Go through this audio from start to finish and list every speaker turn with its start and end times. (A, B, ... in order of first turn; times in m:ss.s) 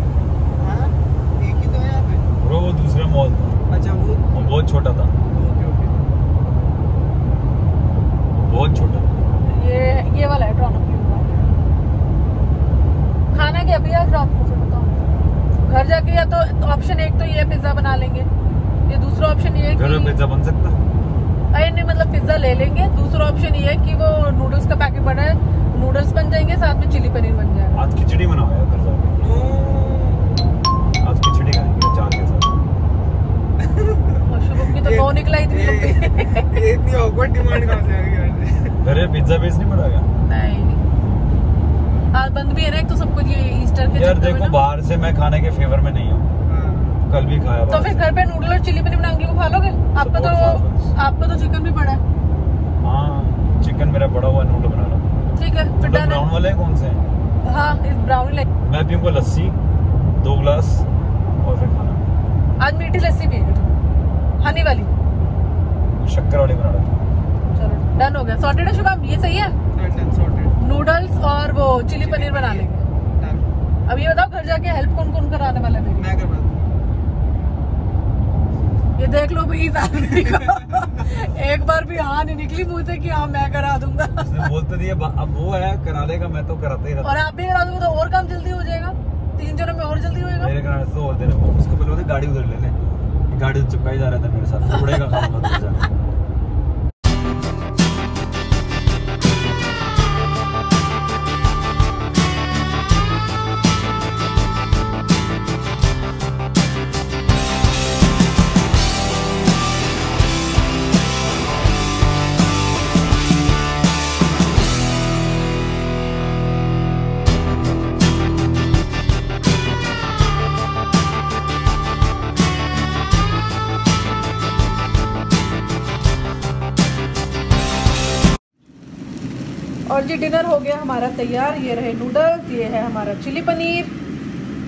0:00.6-0:02.3 A
0:02.4-0:03.6 B
0:03.7-0:04.6 A
0:04.3-0:05.1 B
0:05.3-0:06.0 A
0:08.3-0:09.1 B
0:09.4-0:11.5 C
0:13.3-0:15.0 C
0:15.6-0:18.3 C
0:18.9-0:20.2 C
0:19.7-0:20.8 B
0:21.5-0:27.8 C
0:27.7-0:29.4 B
0:29.2-0:30.4 A
0:31.0-0:32.6 B
0:33.6-0:34.2 A
0:34.2-0:36.6 C
0:34.7-0:38.8 A
0:38.8-0:40.1 B
0:40.2-0:40.8 C
0:42.1-0:44.6 C
0:43.9-0:46.3 B
0:46.5-0:47.0 A
0:47.1-0:48.1 B
0:47.7-0:52.0 C
0:50.0-0:50.9 B
0:52.8-0:55.1 B
0:55.4-0:56.3 C
0:55.8-0:57.0 B
0:57.4-0:58.4 C
0:58.6-0:59.6 B
1:00.2-1:00.9 B
1:01.4-1:02.0 B
1:02.6-1:03.8 C
1:04.4-1:04.9 C
1:06.0-1:06.9 B
1:07.5-1:09.6 C
1:09.7-1:10.6 A
1:10.6-1:12.8 C
1:12.0-1:13.5 A
1:13.9-1:16.1 C
1:16.0-1:16.6 A
1:19.0-1:24.5 C
1:24.2-1:27.2 B
1:27.0-1:30.5 C
1:30.4-1:32.8 B
1:33.3-1:35.9 B
2:09.9-2:14.0 C